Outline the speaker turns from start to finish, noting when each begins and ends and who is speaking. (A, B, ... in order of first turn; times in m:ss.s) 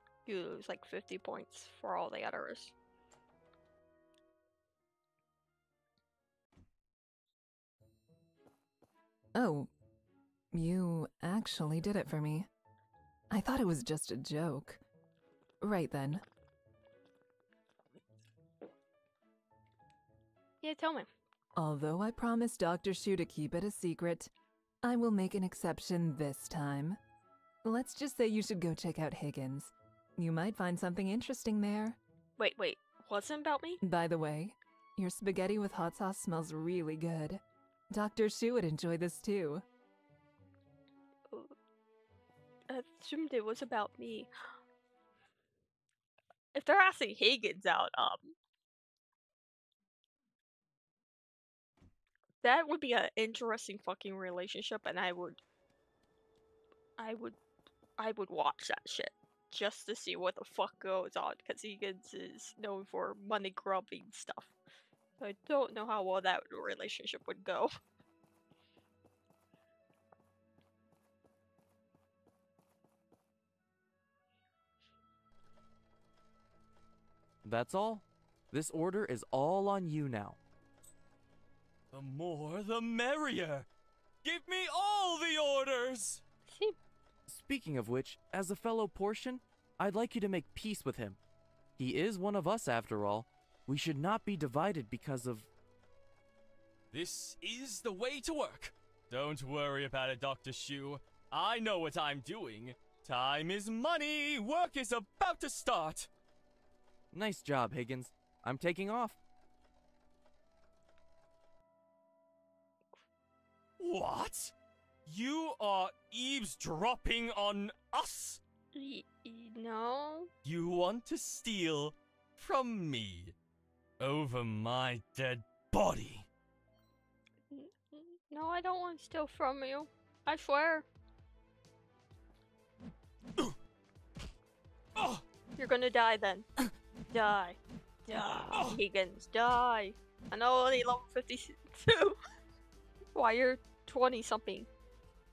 0:00.2-0:02.7 A
0:09.3-0:09.7 B
0:10.5-0:12.5 B
0:13.3-0:14.8 B
0:15.6-0:16.2 B
0:20.6-0:21.1 A
0:21.5-0:24.3 B
0:24.8-0:27.0 B
0:27.6-0:32.0 B
0:32.4-0:33.8 A
0:33.8-0:39.6 B
0:41.3-0:41.5 A
0:42.7-0:44.3 A
0:46.5-0:48.3 A
0:52.4-0:55.4 A
0:57.0-0:57.4 A
0:58.0-1:04.5 A
1:05.2-1:07.7 A
1:17.4-1:20.4 C
1:21.9-1:23.7 D
1:24.2-1:26.2 D
1:26.4-1:26.8 A
1:27.3-1:31.2 C
1:31.8-1:35.5 C
1:36.9-1:46.1 D
1:47.1-1:49.2 C
1:53.8-1:54.5 D
1:55.0-1:58.4 D
1:58.7-2:00.3 A
2:00.4-2:03.3 D
2:04.0-2:06.2 D
2:07.5-2:10.9 A
2:15.0-2:15.2 D
2:15.6-2:16.5 A
2:17.1-2:22.2 A
2:18.1-2:18.8 D
2:23.1-2:24.7 A